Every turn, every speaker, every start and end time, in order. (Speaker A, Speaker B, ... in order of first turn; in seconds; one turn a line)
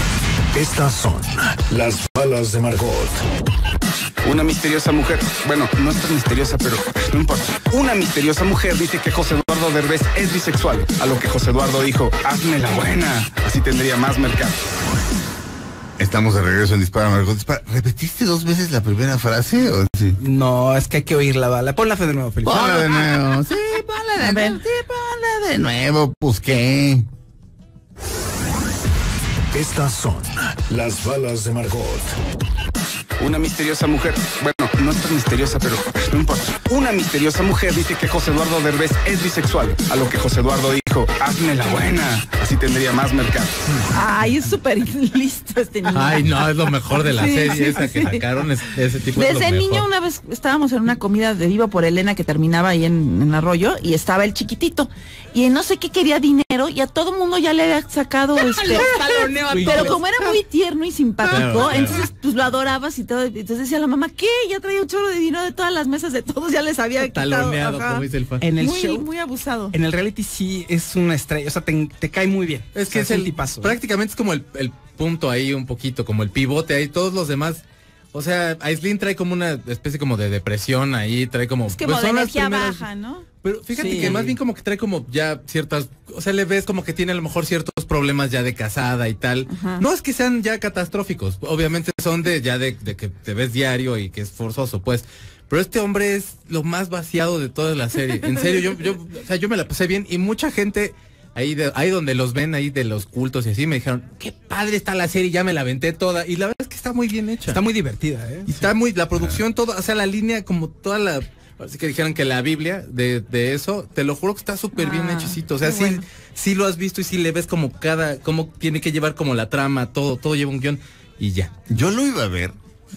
Speaker A: 0.5-3.2
Speaker B: 4.2-14.6
Speaker C: 16.0-20.2
Speaker D: 20.2-22.9
Speaker C: 22.4-27.1
Speaker E: 24.2-24.6
Speaker A: 29.5-32.2
Speaker B: 33.2-43.5
Speaker E: 43.9-48.2
Speaker F: 45.9-49.9
Speaker E: 49.1-59.0
Speaker D: 58.4-60.4
Speaker F: 59.5-59.9
Speaker E: 59.5-68.0
Speaker F: 61.2-62.1
Speaker F: 67.0-68.4
Speaker D: 68.4-69.1
Speaker E: 68.6-69.7
Speaker D: 69.7-73.8
Speaker F: 72.7-82.8
Speaker E: 81.7-83.3
Speaker F: 83.4-107.6
Speaker D: 83.7-84.3
Speaker E: 83.8-84.2
Speaker E: 89.5-89.8
Speaker D: 107.5-108.6
Speaker F: 108.5-121.5
Speaker E: 114.7-116.0
Speaker C: 121.7-122.5